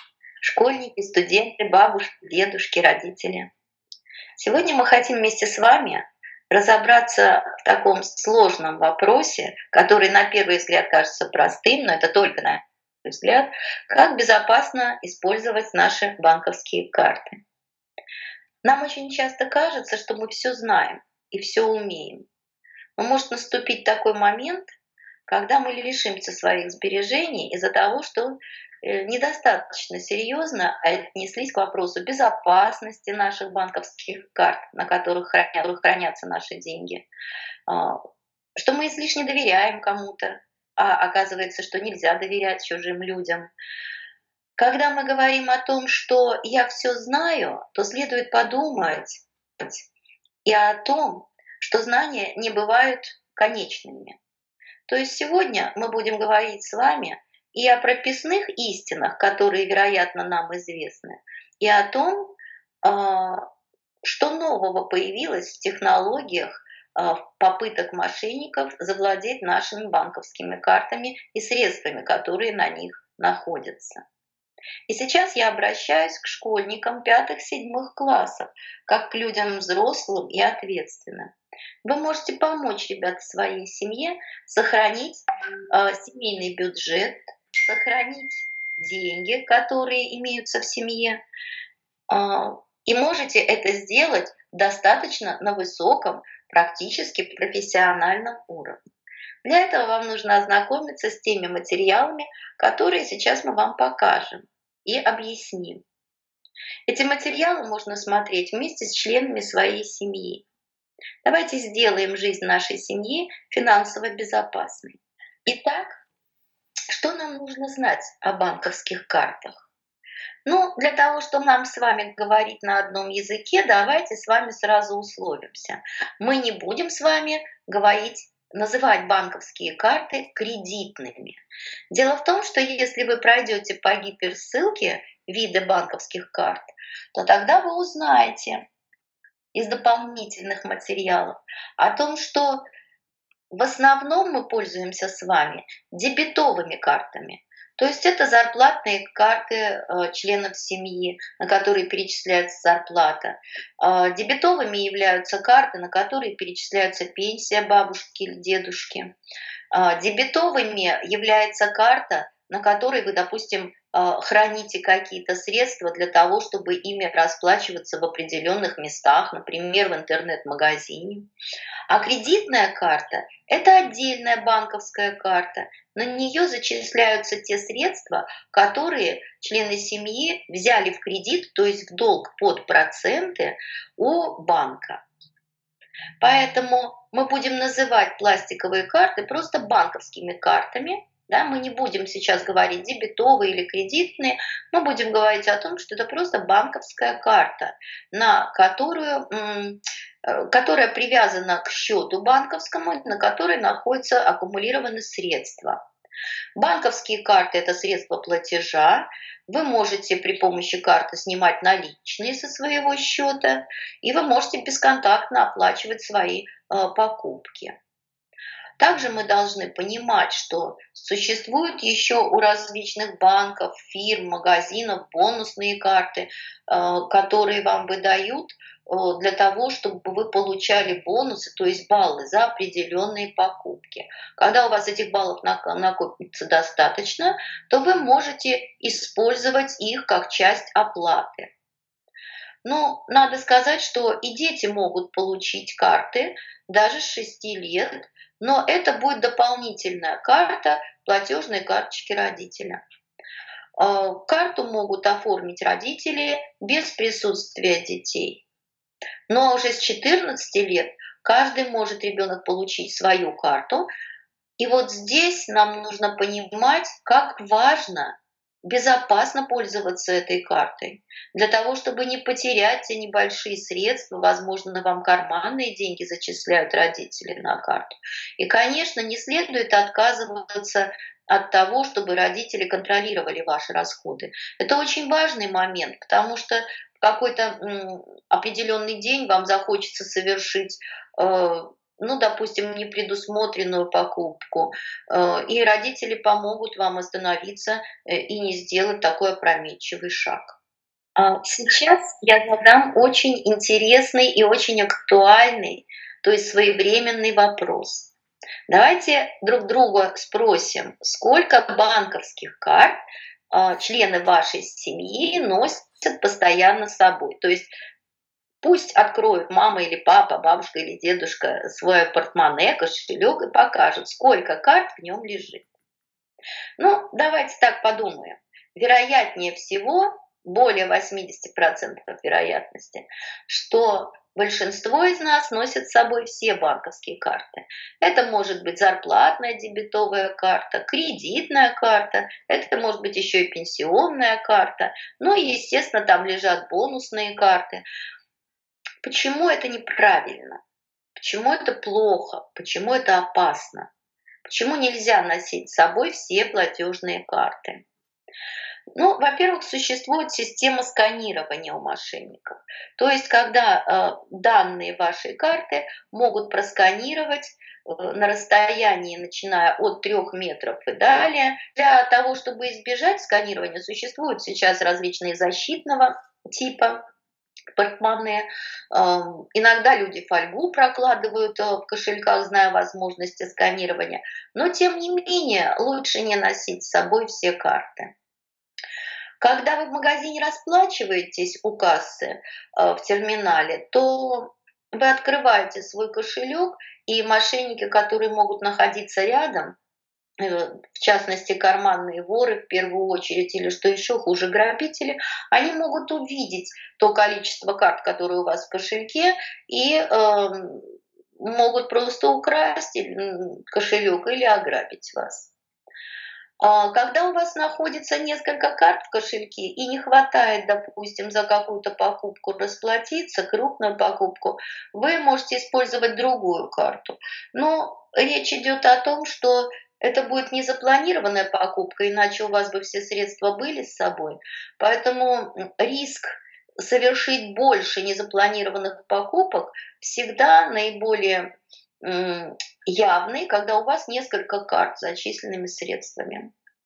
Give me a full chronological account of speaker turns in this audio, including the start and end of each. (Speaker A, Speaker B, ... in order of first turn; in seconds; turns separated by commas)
Speaker A: 0.4-3.5, Speaker A: 4.4-17.4, Speaker A: 18.6-22.3, Speaker A: 23.0-24.7, Speaker A: 25.3-37.1, Speaker A: 37.7-38.0, Speaker A: 38.5-43.5, Speaker A: 44.6-49.9, Speaker A: 50.4-54.2, Speaker A: 54.9-63.4, Speaker A: 64.0-74.0, Speaker A: 74.9-81.3, Speaker A: 81.8-91.2, Speaker A: 92.1-98.8, Speaker A: 99.4-105.8, Speaker A: 106.9-110.5, Speaker A: 111.2-116.0, Speaker A: 116.9-119.7, Speaker A: 120.5-138.6, Speaker A: 139.5-142.6, Speaker A: 143.5-159.1, Speaker A: 159.7-171.3, Speaker A: 171.9-185.0, Speaker A: 186.2-205.8, Speaker A: 206.6-217.8, Speaker A: 218.8-241.5, Speaker A: 242.6-252.8, Speaker A: 253.8-258.4, Speaker A: 259.3-263.9, Speaker A: 264.6-300.6, Speaker A: 301.1-308.1, Speaker A: 308.7-313.0, Speaker A: 313.5-317.7, Speaker A: 318.6-325.7, Speaker A: 326.8-347.8, Speaker A: 349.0-350.6, Speaker A: 351.2-353.9, Speaker A: 354.4-357.9, Speaker A: 358.9-377.0, Speaker A: 377.7-388.1, Speaker A: 389.4-399.8, Speaker A: 400.4-415.5, Speaker A: 416.6-441.5, Speaker A: 442.0-446.5